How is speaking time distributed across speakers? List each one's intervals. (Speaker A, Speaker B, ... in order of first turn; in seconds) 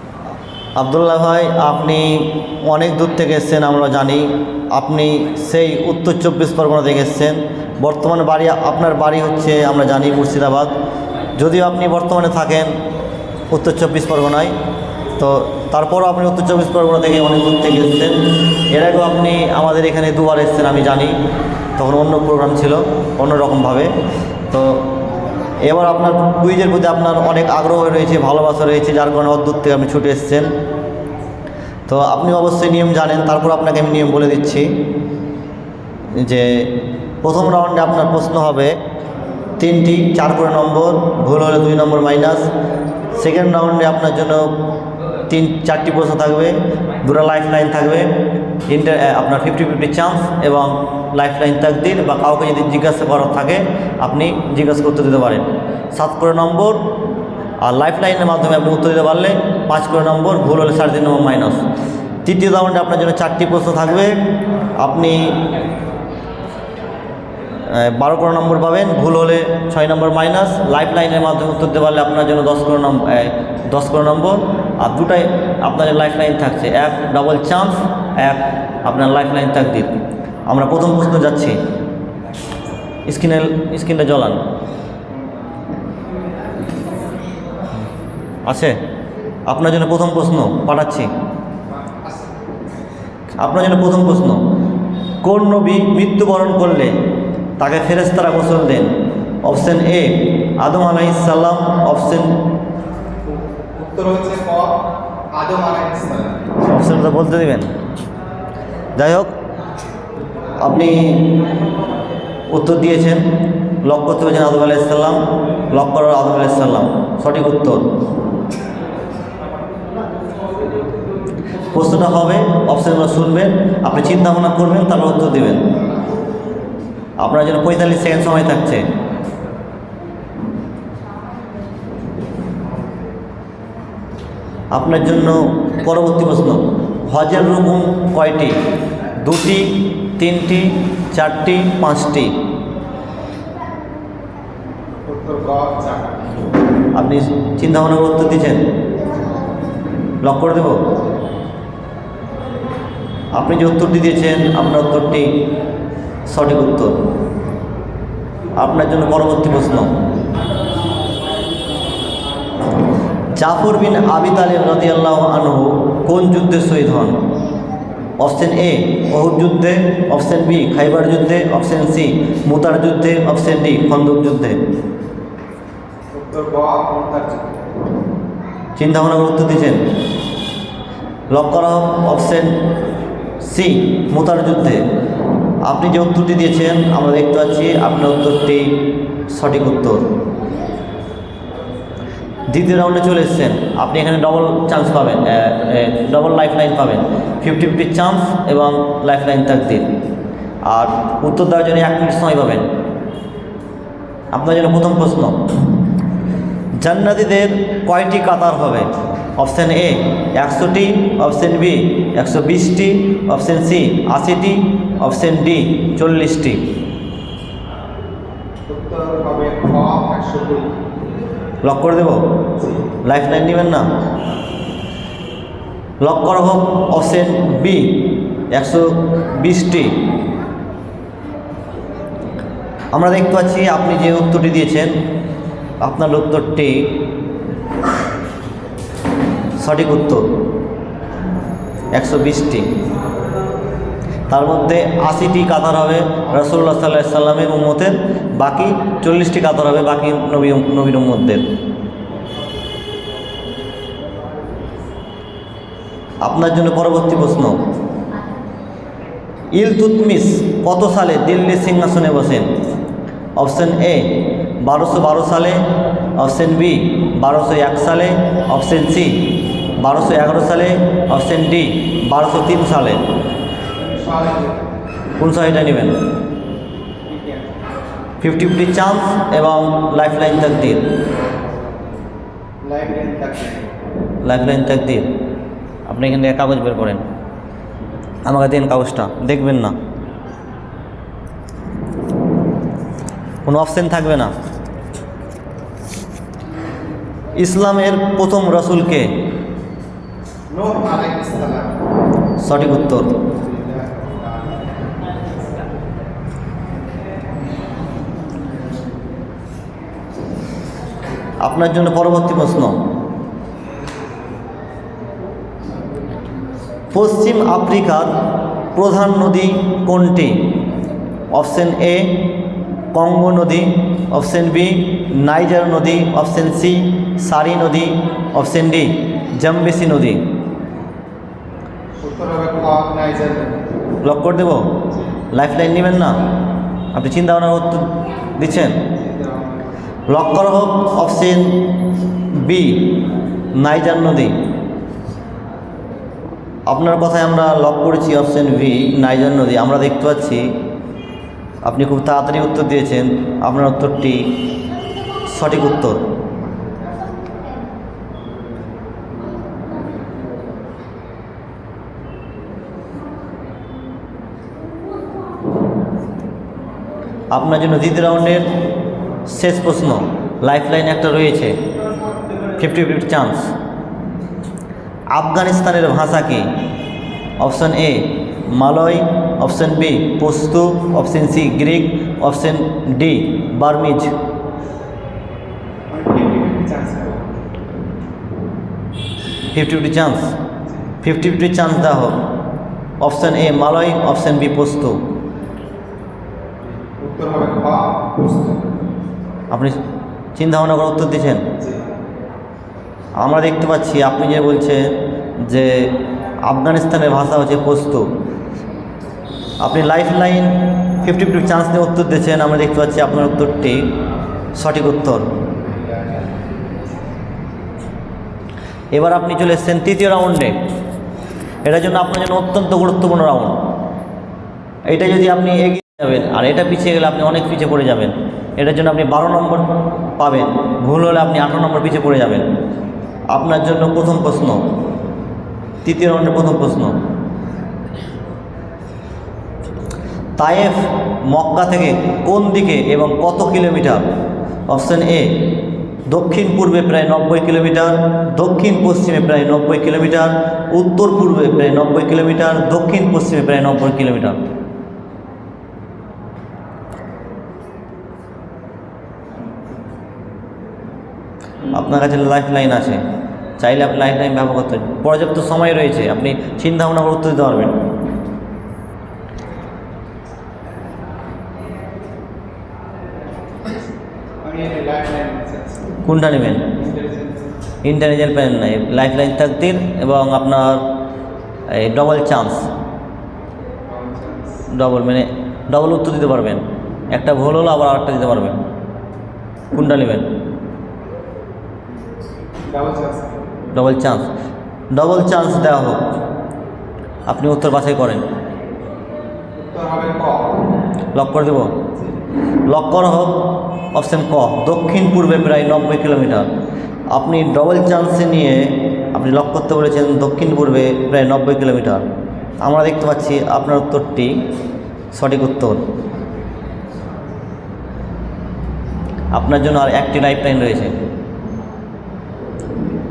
Speaker A: 0.8-10.7, 11.4-12.7, 13.5-14.6, 15.2-21.1, 21.8-23.9, 24.5-24.8, 25.6-30.5, 31.9-34.7, 36.1-38.8, 39.6-42.5, 43.1-44.5, 45.3-48.1, 48.7-56.9, 57.6-61.6, 62.2-64.2, 64.8-65.5, 67.6-79.9, 80.5-81.6, 83.1-84.5, 88.5-88.8, 89.5-91.1, 93.4-94.4, 95.2-97.0, 97.6-102.4, 106.6-107.7, 109.0-109.3, 110.6-111.4, 112.5-117.9, 121.7-125.7, 127.2-128.8, 134.7-138.6, 139.2-142.4, 146.9-148.7, 150.2-150.9, 153.3-155.4, 156.3-157.0, 158.6-160.0, 163.4-167.2, 168.2-174.6, 178.8-179.8, 181.3-182.7, 183.4-184.8, 185.6-190.1, 192.5-199.9, 200.7-202.7, 204.3-205.4, 206.8-208.9, 209.4-216.6, 221.6-222.2, 223.0-223.9, 226.0-230.0, 232.9-235.0, 235.8-236.9, 239.6-240.3, 241.9-242.8, 244.3-251.4, 256.2-257.6, 259.5-262.5, 263.4-265.6, 266.2-273.0, 275.2-276.0, 278.2-280.9, 284.2-285.1, 285.9-287.1, 288.2-289.8, 293.4-294.3, 297.4-299.1, 302.4-303.2, 311.4-312.8, 316.9-318.1, 318.8-320.5, 321.3-322.3, 322.9-330.2, 334.0-334.7, 335.3-336.2, 336.9-338.8, 340.1-341.7, 342.3-343.0, 343.5-344.4, 346.7-350.5, 351.6-354.4, 355.3-356.0, 367.3-368.5, 369.3-371.6, 372.6-373.5, 375.1-376.5, 377.4-384.1, 389.5-390.3, 391.0-392.2, 393.0-395.0, 399.5-399.8, 400.4-401.5, 403.2-408.1, 409.6-413.9, 414.5-415.3, 418.9-420.6, 421.6-423.6, 424.9-432.5, 433.3-434.7, 435.8-437.0, 440.4-444.1, 444.7-445.5, 446.1-454.4, 461.7-463.0, 463.6-467.8, 476.0-476.7, 477.8-480.9, 481.7-482.7, 484.7-488.6, 489.7-490.3, 493.7-494.3, 494.9-496.0, 497.3-498.2, 501.1-501.7, 502.7-506.5, 507.1-512.0, 512.6-514.4, 515.1-515.8, 519.3-521.0
Speaker B: 91.7-92.4, 103.6-104.8, 105.3-106.6, 145.1-146.5, 176.1-177.6, 218.7-220.8, 222.6-222.9, 273.8-274.8, 277.1-277.6, 282.6-283.7, 300.5-301.9, 303.2-305.3, 332.0-333.9, 338.9-339.8, 356.6-357.3, 385.9-387.4, 396.8-398.8, 401.6-401.9, 415.6-416.6, 474.4-476.0, 476.7-477.5, 483.9-484.6, 492.7-493.4, 499.6-500.7